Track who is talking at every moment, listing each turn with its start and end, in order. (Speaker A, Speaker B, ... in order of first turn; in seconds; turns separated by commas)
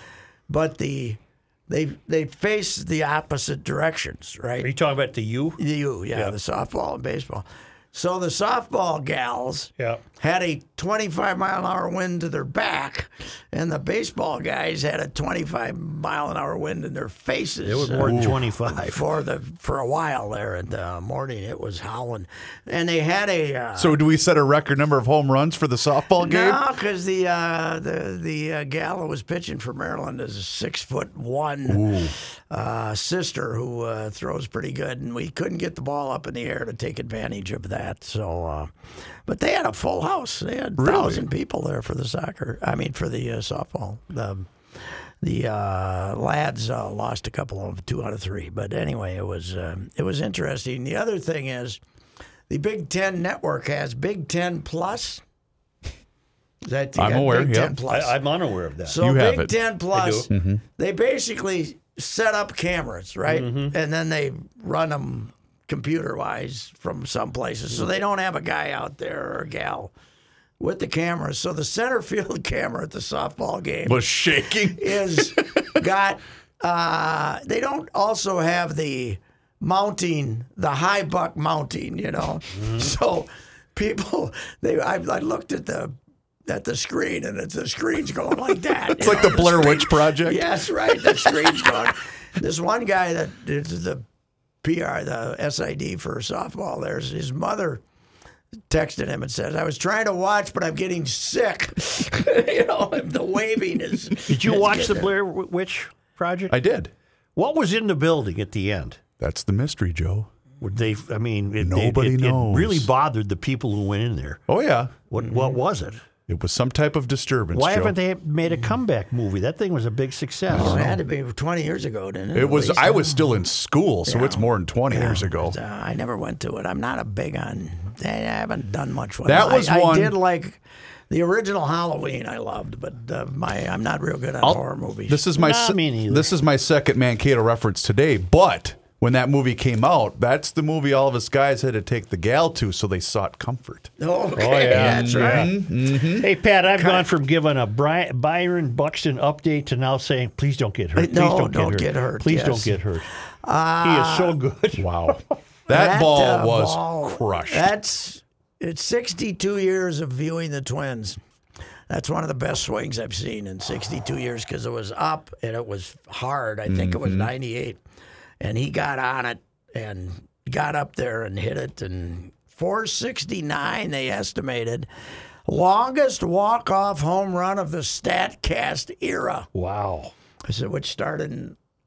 Speaker A: 0.5-4.7, Speaker B: 4.6-5.6, Speaker A: 5.6-24.0, Speaker B: 17.6-19.0, Speaker C: 18.0-18.4, Speaker C: 23.7-26.6, Speaker A: 26.2-38.7, Speaker C: 31.7-32.1, Speaker A: 39.3-44.5, Speaker C: 40.8-41.2, Speaker A: 45.2-51.8, Speaker A: 52.5-55.2, Speaker A: 56.6-58.2, Speaker C: 57.0-57.8, Speaker B: 57.9-59.0, Speaker A: 58.9-69.9, Speaker C: 59.0-59.5, Speaker B: 59.9-60.3, Speaker C: 60.3-60.6, Speaker B: 63.3-63.7, Speaker A: 70.6-85.9, Speaker C: 73.8-75.6, Speaker B: 82.5-82.9, Speaker A: 86.5-94.0, Speaker C: 89.0-90.4, Speaker A: 94.6-97.8, Speaker A: 98.7-105.1, Speaker B: 104.3-106.5, Speaker C: 106.5-106.9, Speaker B: 107.3-109.0, Speaker C: 109.2-110.3, Speaker B: 110.6-114.4, Speaker C: 111.6-112.9, Speaker C: 114.5-114.9, Speaker B: 115.1-116.0, Speaker A: 115.2-115.6, Speaker C: 116.3-118.0, Speaker B: 117.5-121.0, Speaker A: 120.5-123.4, Speaker C: 120.5-120.9, Speaker C: 122.3-125.5, Speaker A: 124.0-135.2, Speaker C: 129.2-130.2, Speaker C: 134.4-143.9, Speaker B: 135.4-136.3, Speaker A: 144.0-145.5, Speaker B: 144.3-153.1, Speaker C: 144.7-146.3, Speaker A: 146.8-147.1, Speaker A: 150.9-152.8, Speaker A: 153.4-154.4, Speaker B: 153.8-154.9, Speaker C: 154.8-157.7, Speaker A: 155.7-161.2, Speaker A: 161.9-167.8, Speaker C: 166.7-167.3, Speaker A: 168.4-174.9, Speaker A: 175.5-179.5, Speaker B: 179.5-180.1, Speaker A: 180.5-181.6